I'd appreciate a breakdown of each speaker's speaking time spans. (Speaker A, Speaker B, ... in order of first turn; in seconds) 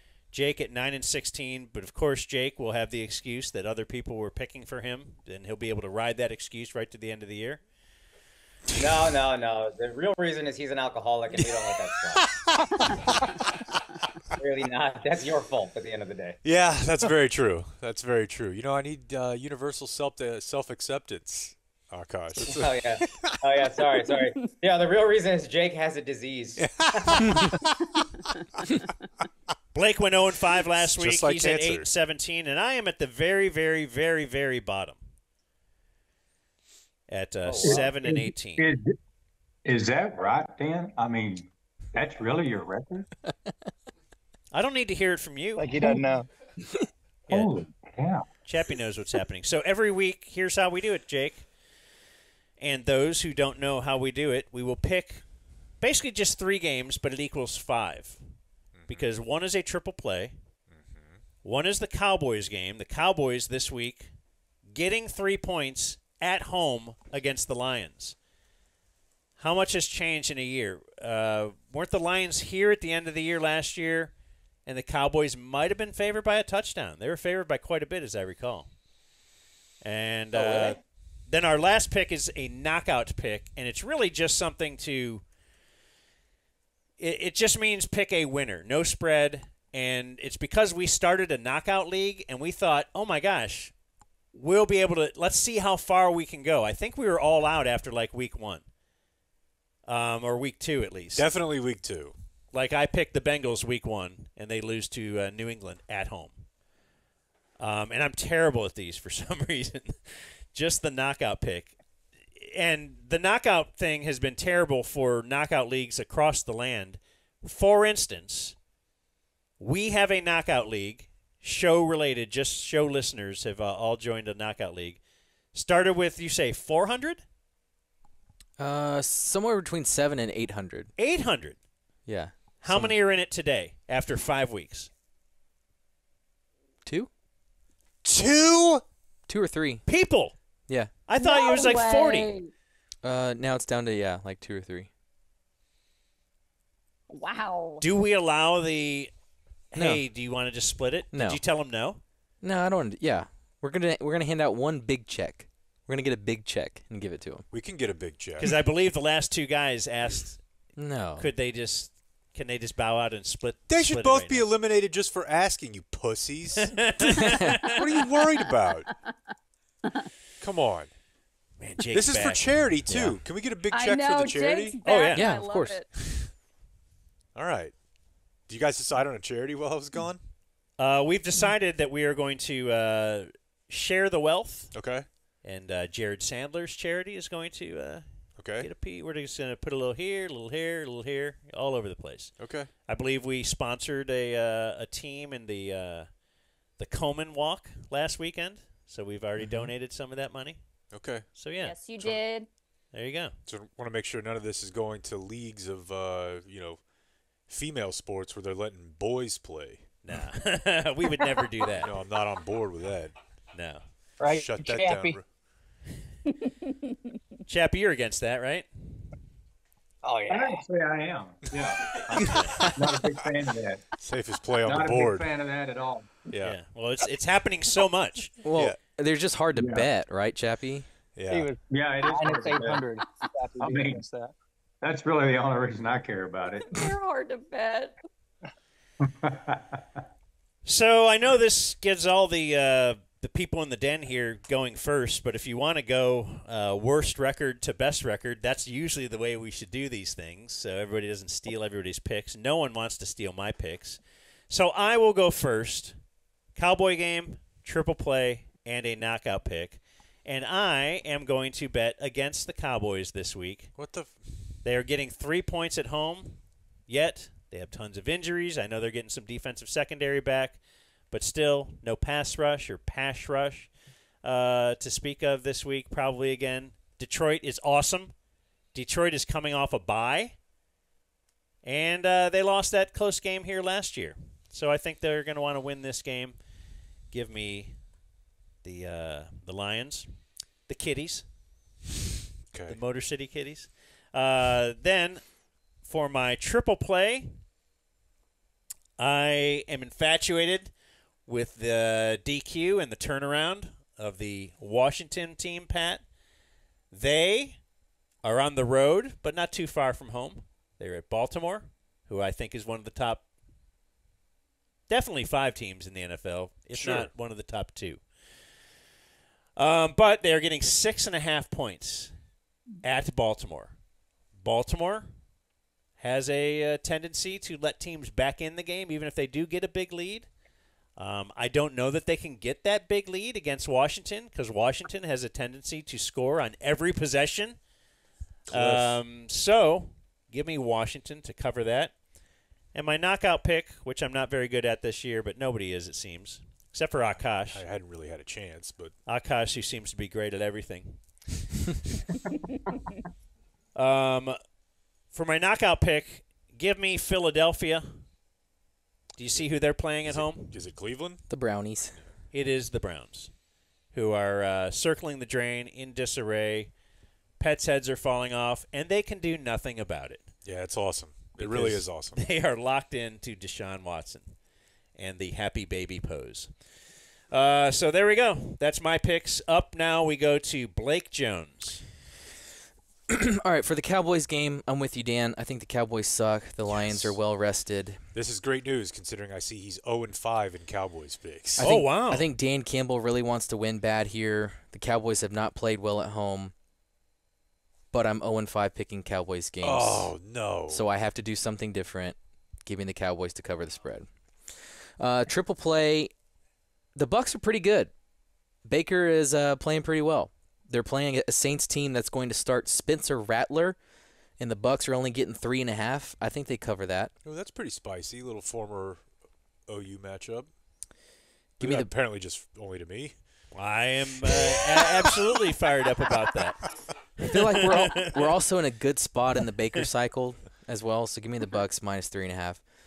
Speaker A: 0.3-7.6, 29.7-35.0, 37.1-38.6, 44.5-45.7, 48.5-51.5, 52.6-55.2, 55.8-58.3, 58.9-60.4, 61.4-64.1, 64.7-68.2, 69.4-78.7, 79.8-85.2, 87.0-93.7, 94.3-98.6, 99.8-101.3, 102.5-106.5, 107.6-111.8, 112.3-118.5, 119.6-125.0, 125.5-127.2, 131.0-131.6, 132.6-134.9, 139.9-140.3, 141.1-142.3, 147.8-149.1, 149.7-152.0, 158.4-160.5, 161.2-164.5, 166.7-167.8, 171.6-172.6, 174.8-175.3, 180.8-196.2, 196.8-201.8, 202.9-203.3, 210.0-211.9, 213.5-213.9, 217.5-219.1, 222.2-222.6, 226.4-228.3, 240.6-256.0, 256.5-263.8, 264.6-278.2, 278.7-280.4, 281.6-286.4, 287.1-288.0, 288.6-291.3, 292.7-297.4, 299.0-306.1, 306.9-307.6, 308.2-313.2, 314.9-318.6, 319.6-322.2, 322.8-323.8, 324.3-325.1, 326.0-330.3, 330.9-337.6, 338.5-342.0, 342.7-347.6, 349.1-351.5, 353.7-354.4, 355.1-358.1, 359.1-360.6, 362.3-366.8, 367.4-370.3, 371.4-374.4, 374.9-381.9, 391.6-392.2, 423.5-428.2
Speaker B: 8.8-12.3, 14.3-16.4, 22.4-27.5, 37.5-37.9, 80.4-80.8
Speaker C: 12.2-13.5, 16.4-23.4, 26.6-27.7, 30.8-31.9, 58.7-59.1, 60.7-61.2, 101.1-102.1, 138.0-138.8, 157.5-158.5, 163.7-166.8, 167.8-168.9, 170.4-170.9, 171.9-174.8, 176.0-176.3, 177.3-177.8, 178.4-180.3, 184.7-185.1, 188.4-188.7, 192.4-192.7, 199.4-199.7, 200.9-201.3, 203.4-206.8, 207.4-210.1, 211.8-213.2, 214.3-215.3, 224.0-225.3, 226.3-226.6, 231.1-231.5, 263.7-264.4, 292.5-292.8, 316.7-317.1, 338.5-339.0, 347.5-348.9, 360.0-361.2, 370.4-372.2, 386.7-387.1, 388.1-391.7, 399.6-400.8, 417.2-419.1, 419.6-420.5, 421.6-423.2
Speaker D: 37.6-38.9, 39.6-43.1, 47.3-48.2, 220.3-222.0, 222.7-223.9, 224.6-226.3, 229.6-229.9, 231.7-232.8, 233.6-234.0, 234.8-236.8, 239.0-239.8
Speaker E: 45.6-46.3, 214.2-215.2, 220.0-220.6, 231.3-234.3
Speaker F: 128.6-130.9, 132.0-132.9, 136.8-137.1, 139.3-139.9, 143.0-144.9, 149.7-150.0, 151.1-151.4, 152.4-157.4, 160.8-161.3, 172.9-173.2, 175.1-175.8, 228.4-230.9, 361.3-362.0, 383.1-388.0, 391.6-396.5, 397.9-400.1, 400.7-406.1, 406.9-407.9, 408.6-413.8, 414.4-417.1, 421.6-421.9, 427.2-432.6
Speaker G: 141.2-142.5, 147.1-147.8, 167.8-168.9, 173.7-175.9, 201.6-202.5, 236.7-238.0